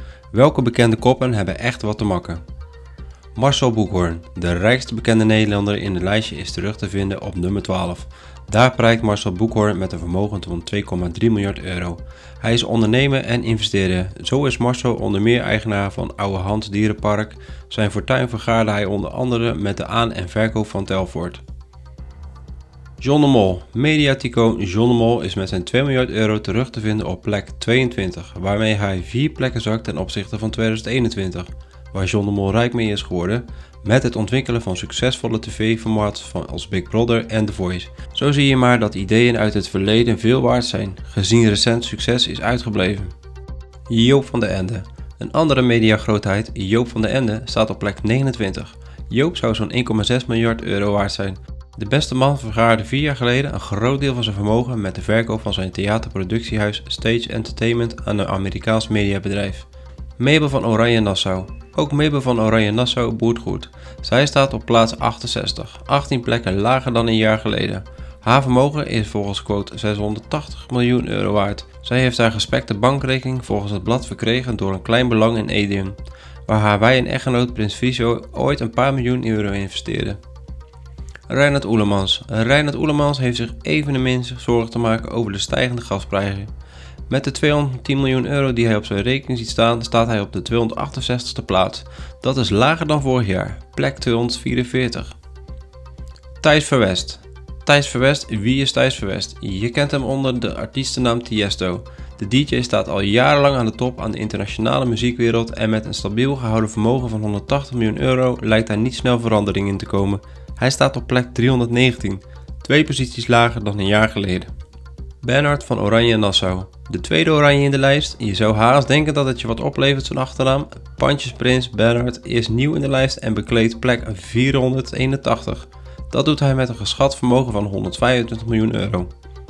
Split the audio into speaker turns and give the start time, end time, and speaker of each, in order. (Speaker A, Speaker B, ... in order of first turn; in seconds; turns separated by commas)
Speaker A: 0.3-2.4, Speaker A: 3.3-21.4, Speaker A: 23.0-43.1, Speaker A: 43.9-59.7, Speaker A: 60.2-80.2, Speaker A: 81.3-86.5, Speaker A: 87.1-95.1, Speaker A: 96.4-114.5, Speaker A: 115.2-129.1